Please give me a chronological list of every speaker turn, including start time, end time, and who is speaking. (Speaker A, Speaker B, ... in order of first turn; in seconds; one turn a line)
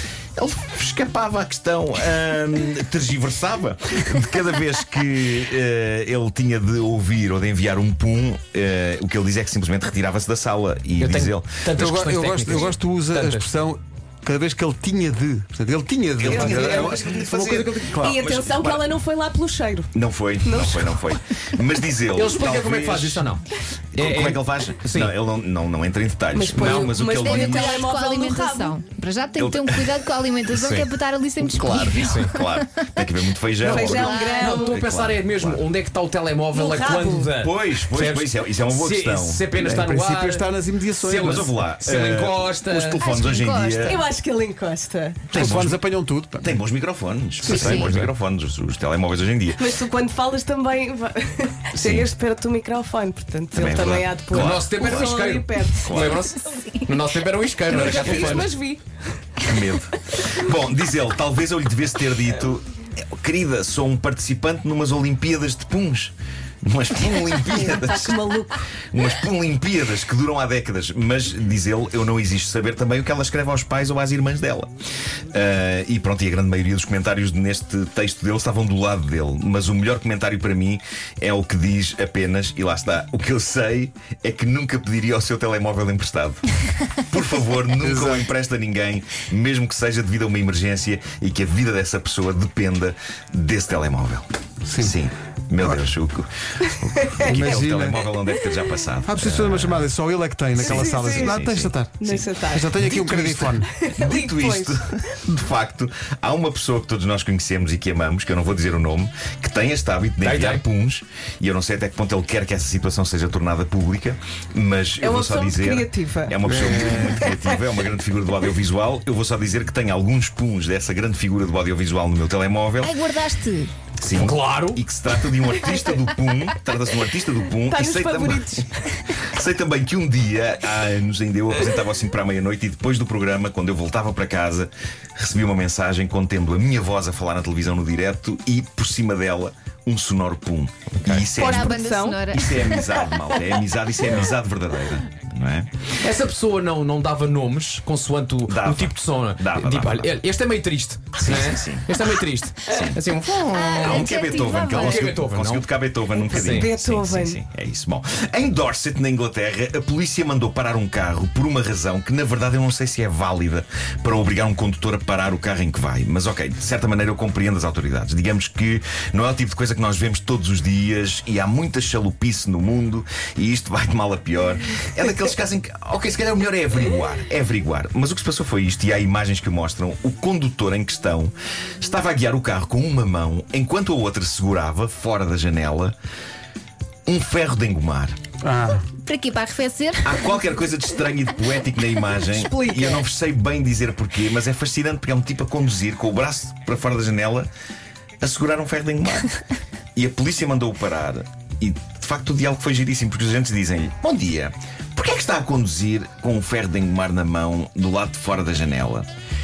Speaker A: 0.4-11.6
Speaker B: 11.0-13.4
Speaker C: 11.7-17.9
Speaker A: 16.2-18.9
Speaker D: 16.2-16.9
Speaker B: 17.3-17.9
Speaker D: 17.9-19.9
Speaker A: 19.9-23.3
Speaker D: 20.4-21.0
Speaker B: 22.1-23.4
Speaker A: 23.9-27.9
Speaker B: 23.9-25.1
Speaker D: 26.3-28.8
Speaker B: 26.6-27.0
Speaker E: 27.2-32.9
Speaker A: 29.4-29.9
Speaker B: 30.5-30.9
Speaker A: 31.4-35.6
Speaker B: 32.0-32.3
Speaker D: 33.6-34.8
Speaker B: 33.6-43.0
Speaker E: 33.9-34.7
Speaker D: 36.5-37.3
Speaker A: 37.4-39.5
Speaker C: 39.5-41.5
Speaker A: 41.2-44.0
Speaker E: 43.0-44.0
Speaker D: 43.9-45.2
Speaker A: 45.3-45.8
Speaker C: 45.3-46.6
Speaker A: 46.4-49.7
Speaker B: 47.4-48.1
Speaker D: 49.6-56.1
Speaker A: 51.8-52.1
Speaker A: 53.5-55.1
Speaker B: 54.3-58.5
Speaker A: 55.8-56.3
Speaker D: 57.7-58.8
Speaker A: 59.4-68.2
Speaker D: 67.4-68.6
Speaker A: 68.9-74.7
Speaker A: 75.3-94.2
Speaker C: 87.8-88.2
Speaker C: 94.6-94.9
Speaker A: 94.8-99.9
Speaker C: 97.2-98.0
Speaker C: 99.0-103.7
Speaker D: 100.6-101.4
Speaker A: 100.6-102.2
Speaker D: 102.0-102.8
Speaker A: 102.8-123.0
Speaker D: 103.8-104.8
Speaker B: 110.2-110.6
Speaker D: 115.0-117.4
Speaker C: 116.5-117.2
Speaker E: 122.8-123.7
Speaker A: 124.0-128.6
Speaker B: 124.0-124.8
Speaker D: 127.7-128.7
Speaker A: 129.1-141.7
Speaker B: 141.0-141.3
Speaker E: 141.3-142.9
Speaker D: 141.4-143.4
Speaker A: 142.3-145.7
Speaker B: 146.0-155.7
Speaker A: 148.4-150.2
Speaker A: 151.2-151.9
Speaker A: 152.7-153.0
Speaker E: 153.4-155.1
Speaker A: 153.8-185.9
Speaker B: 156.3-156.7
Speaker D: 156.3-157.4
Speaker A: 187.1-188.2
Speaker C: 188.4-188.9
Speaker E: 189.0-190.2
Speaker A: 190.0-197.5
Speaker D: 192.2-193.0
Speaker A: 198.2-199.3
Speaker A: 199.9-209.1